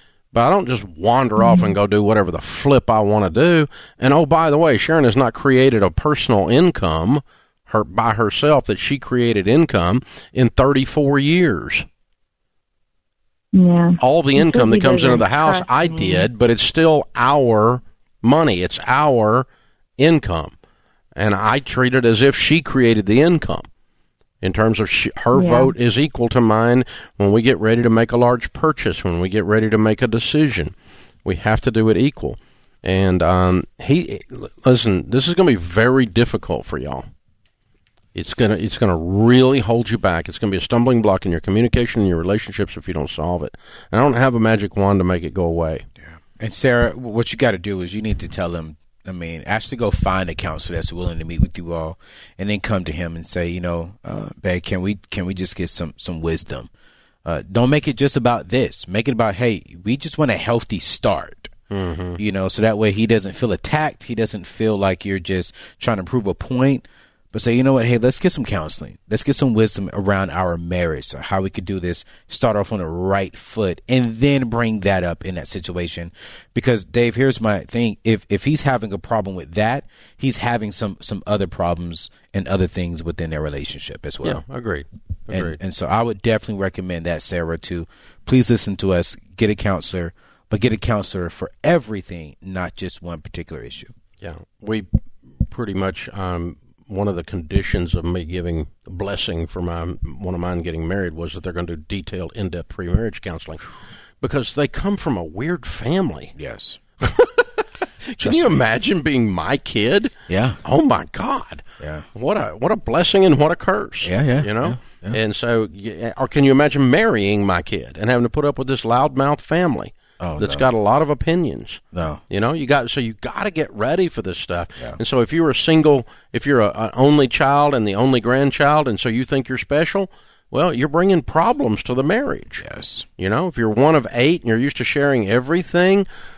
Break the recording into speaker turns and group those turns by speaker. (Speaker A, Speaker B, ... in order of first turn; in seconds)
Speaker A: 0.3-11.8, 14.0-19.4, 20.0-20.5, 21.1-23.7, 24.4-30.7, 31.2-37.0, 38.1-45.8, 61.7-62.2, 84.2-85.6, 94.2-94.9, 95.5-103.7, 104.2-106.3, 107.0-132.6, 133.2-136.1
Speaker B: 1.4-1.7, 13.5-16.3, 25.3-25.7
Speaker C: 46.0-56.7, 57.2-61.5, 62.2-84.4, 85.3-93.9, 106.3-106.8, 108.2-108.6, 110.3-110.6, 111.8-112.1, 114.0-115.2, 120.2-120.7, 121.9-122.2, 132.6-133.0